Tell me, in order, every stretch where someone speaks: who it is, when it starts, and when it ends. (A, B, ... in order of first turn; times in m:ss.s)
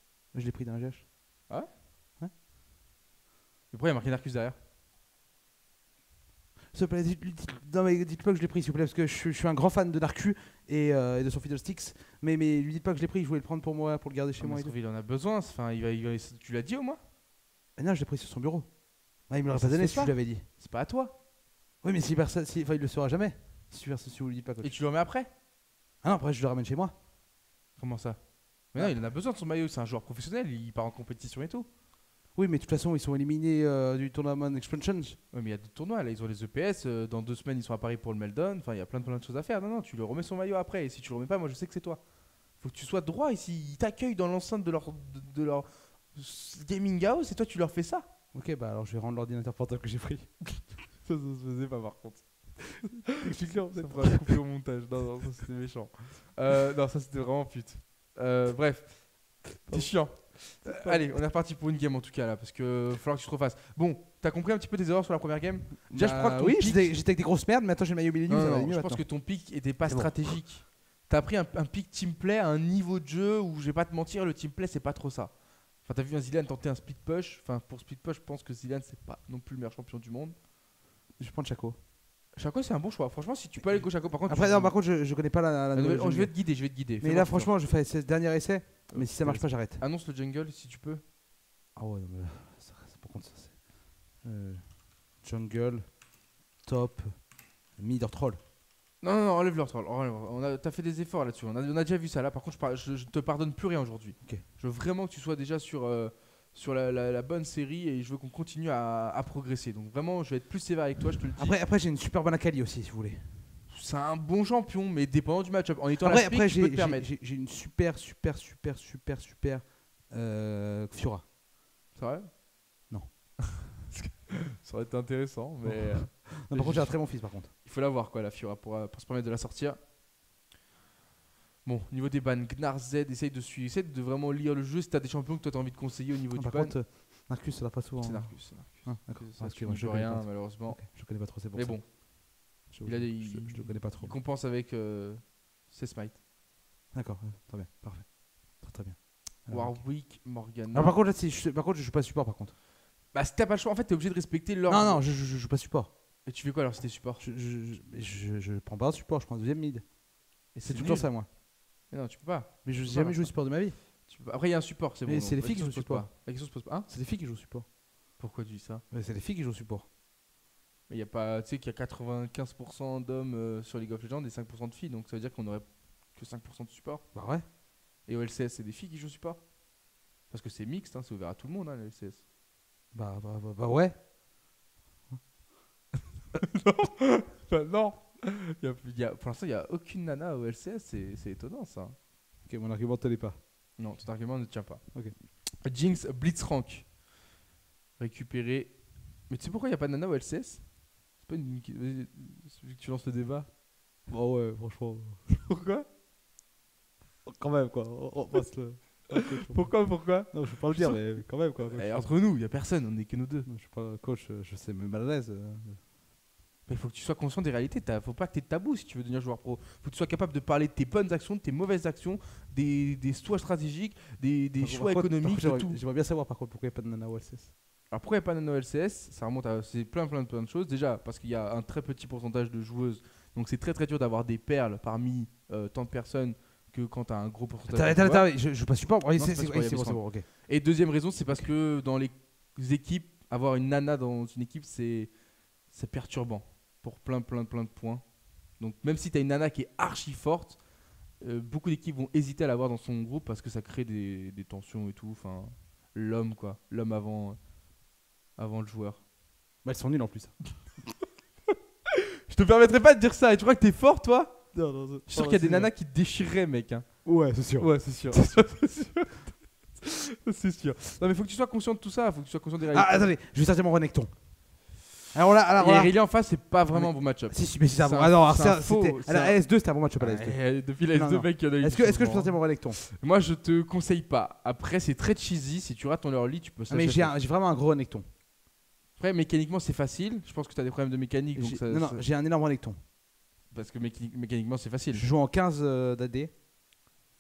0:00.3-0:01.1 A
0:03.7-0:04.6 B
0:06.7-0:14.7 A
0:14.4-0:17.0 B
0:17.8-0:20.5 A
0:19.5-0:21.1 B
0:21.8-0:24.8 A
0:24.6-0:25.3 B
0:26.0-0:26.9 A
0:27.8-0:31.7 B
0:28.8-0:29.0 A
0:32.4-0:35.2 A
0:35.3-0:48.1 B
0:48.3-0:50.5 A
0:50.9-1:06.9 B
0:53.2-0:54.1 A
0:59.6-1:01.2 A
1:05.9-1:10.2 A
1:08.3-1:20.4 B
1:21.2-1:21.8 A
1:22.4-1:24.8 B
1:23.6-1:29.8 A
1:25.7-1:27.5 B
1:28.9-1:31.0 B
1:31.8-1:36.0 A
1:36.6-1:38.4 A
1:39.0-1:51.6 B
1:51.4-1:53.4 A
1:53.7-1:57.1 B
1:56.0-2:01.2 A
2:01.9-2:02.4 B
2:02.9-2:03.4 A
2:03.9-2:09.8 B
2:05.6-2:07.5 A
2:11.6-2:16.8 B
2:16.3-2:22.0 A
2:18.0-2:21.9 B
2:22.6-2:26.2 B
2:22.7-2:24.2 A
2:26.9-2:30.0 A
2:29.5-2:31.0 B
2:30.7-2:32.5 A
2:33.1-2:35.0 B
2:34.7-2:35.9 A
2:36.2-2:37.2 B
2:37.2-2:40.0 A
2:40.5-2:41.3 A
2:40.5-2:46.9 B
2:42.6-2:43.8 A
2:45.1-2:47.7 A
2:48.2-2:48.8 B
2:48.9-2:49.9 A
2:50.9-2:57.1 B
2:57.1-2:57.5 A
2:58.0-2:59.5 B
3:00.3-3:02.2 B
3:02.9-3:04.1 A
3:06.3-3:12.0 B
3:12.4-3:13.4 A
3:13.8-3:16.9 B
3:18.0-3:23.5 B
3:24.1-3:25.3 A
3:25.3-3:25.9 B
3:27.2-3:32.1 A
3:29.1-3:33.5 B
3:33.5-3:35.8 A
3:36.7-3:45.8 B
3:44.6-3:47.5 A
3:47.9-4:17.5 B
3:57.7-4:00.3 A
4:18.4-4:19.0 B
4:19.6-4:20.7 A
4:22.3-4:33.1 B
4:24.5-4:25.7 A
4:27.0-4:28.5 A
4:32.7-4:34.3 A
4:35.1-4:36.0 A
4:35.6-4:47.2 B
4:36.7-4:42.8 A
4:46.7-4:48.1 A
4:49.0-4:52.0 B
4:51.4-4:52.8 A
4:53.5-4:55.1 B
4:54.9-4:56.3 A